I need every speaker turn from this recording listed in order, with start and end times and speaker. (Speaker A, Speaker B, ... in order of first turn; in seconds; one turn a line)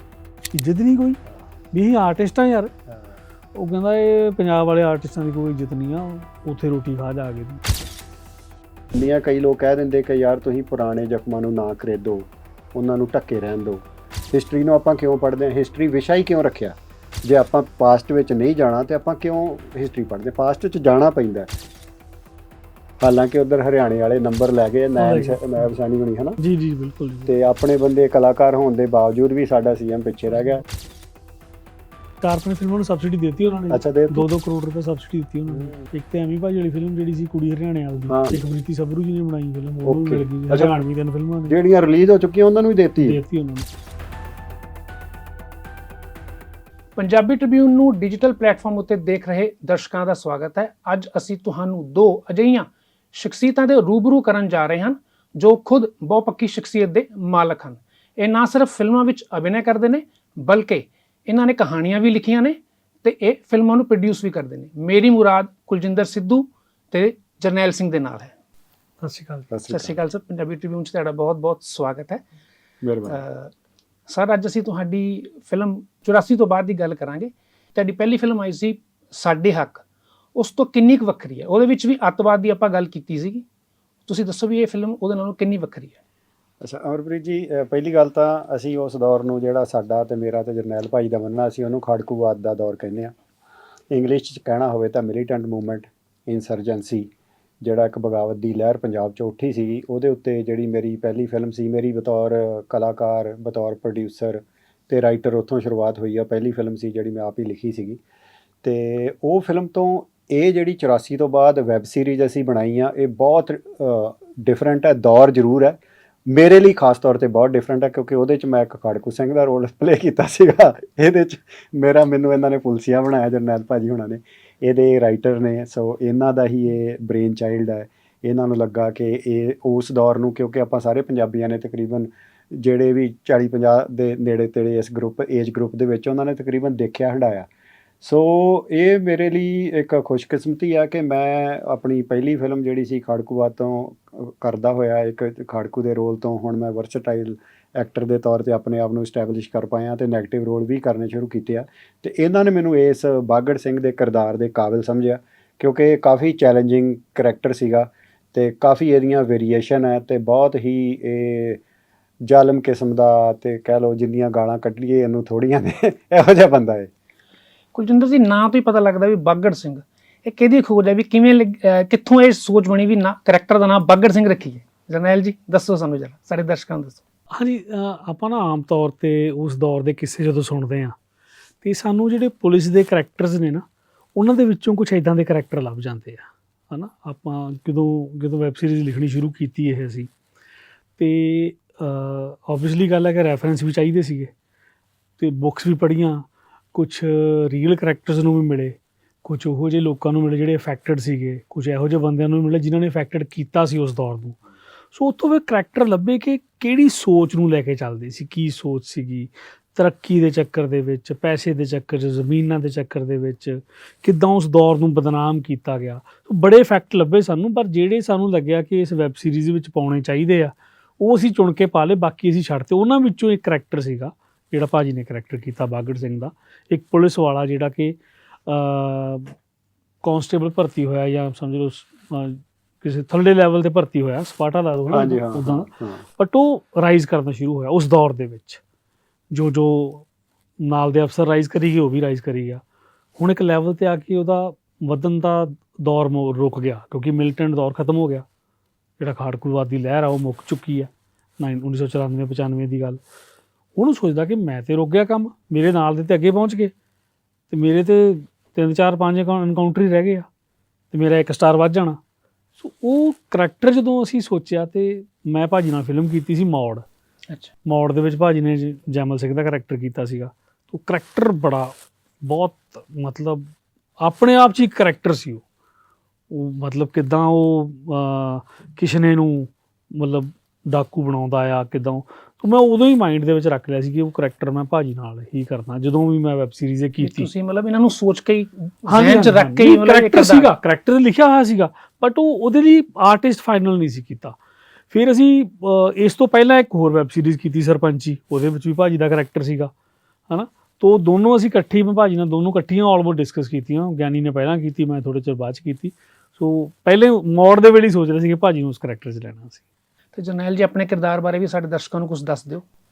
Speaker A: 0.5-1.2
Speaker A: 1.7-2.7
Speaker B: 2.9-3.2
Speaker A: 3.6-7.6
Speaker B: 8.9-21.5
Speaker B: 23.0-26.4
Speaker A: 25.0-25.7
Speaker A: 26.4-27.5
Speaker B: 27.3-30.6
Speaker A: 32.2-41.6
Speaker B: 33.7-34.3
Speaker B: 35.5-35.8
Speaker B: 38.1-38.4
Speaker B: 39.9-40.8
Speaker B: 41.5-43.2
Speaker A: 43.0-43.7
Speaker C: 47.0-68.3
Speaker A: 69.0-69.5
Speaker B: 69.5-70.0
Speaker C: 69.7-72.2
Speaker B: 72.8-73.2
Speaker C: 73.1-73.5
Speaker C: 74.1-79.8
Speaker C: 80.3-83.5
Speaker C: 84.1-86.0
Speaker B: 86.6-93.1
Speaker B: 93.9-97.1
Speaker B: 97.6-108.0
Speaker B: 108.6-137.5
Speaker B: 138.0-161.6
Speaker B: 162.3-166.9
Speaker C: 167.7-177.0
Speaker A: 177.3-180.9
Speaker A: 181.6-183.7
Speaker A: 184.2-190.1
Speaker A: 191.0-194.3
Speaker A: 195.2-204.4
Speaker A: 204.9-229.3
Speaker A: 230.0-238.6
Speaker B: 234.9-236.0
Speaker A: 239.3-240.1
Speaker A: 240.6-242.6
Speaker A: 243.2-248.2
Speaker A: 249.0-253.0
Speaker A: 253.8-256.7
Speaker A: 257.5-260.3
Speaker A: 260.9-262.0
Speaker A: 262.6-266.8
Speaker A: 267.7-273.5
Speaker A: 274.0-275.4
Speaker A: 276.3-287.3
Speaker C: 287.0-290.5
Speaker A: 288.9-294.4
Speaker A: 294.9-299.7
Speaker A: 300.3-309.6
Speaker C: 310.1-312.6